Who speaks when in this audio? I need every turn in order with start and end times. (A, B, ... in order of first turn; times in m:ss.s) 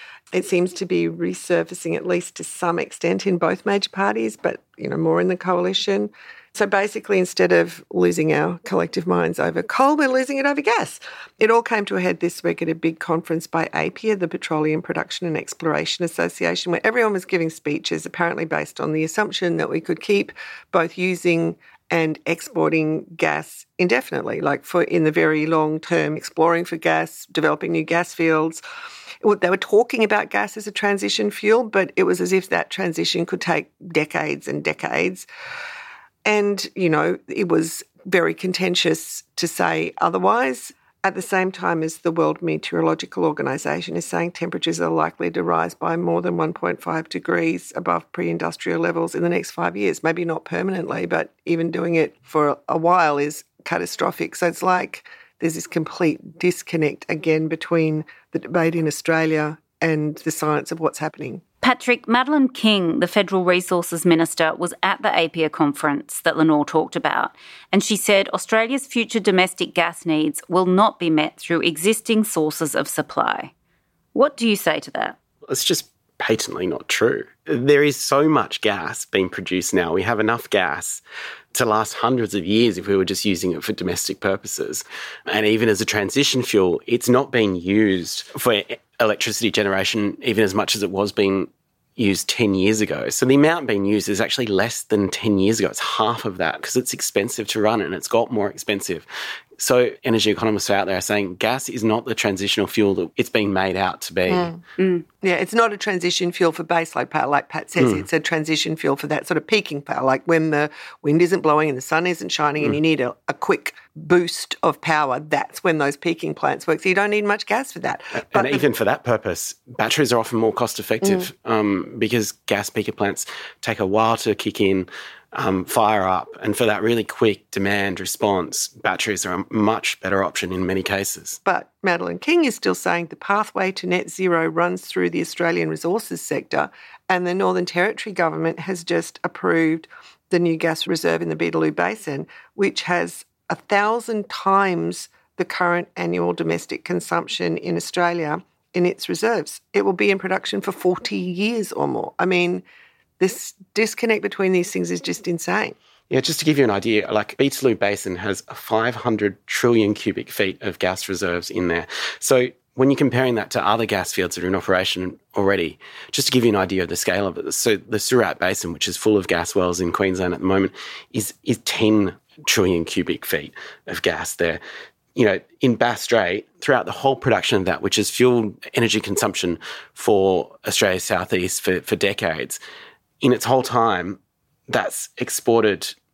0:00.3-0:28.6 A
0:29.2-0:35.2 A
0:36.2-1:01.4 A
1:01.6-1:13.5 B
1:14.2-1:15.2 B
1:15.5-1:21.0 C
1:21.5-1:39.1 C
1:39.6-1:44.5 C
1:44.3-1:44.6 A
1:44.8-1:45.0 B
1:45.2-1:58.7 A
1:47.8-1:48.1 C
1:58.3-2:11.4 C
2:01.0-2:01.3 A
2:11.4-2:32.6 A
2:33.2-2:35.8 A
2:36.1-2:54.6 C
2:55.2-3:02.6 C
3:03.2-3:06.0 C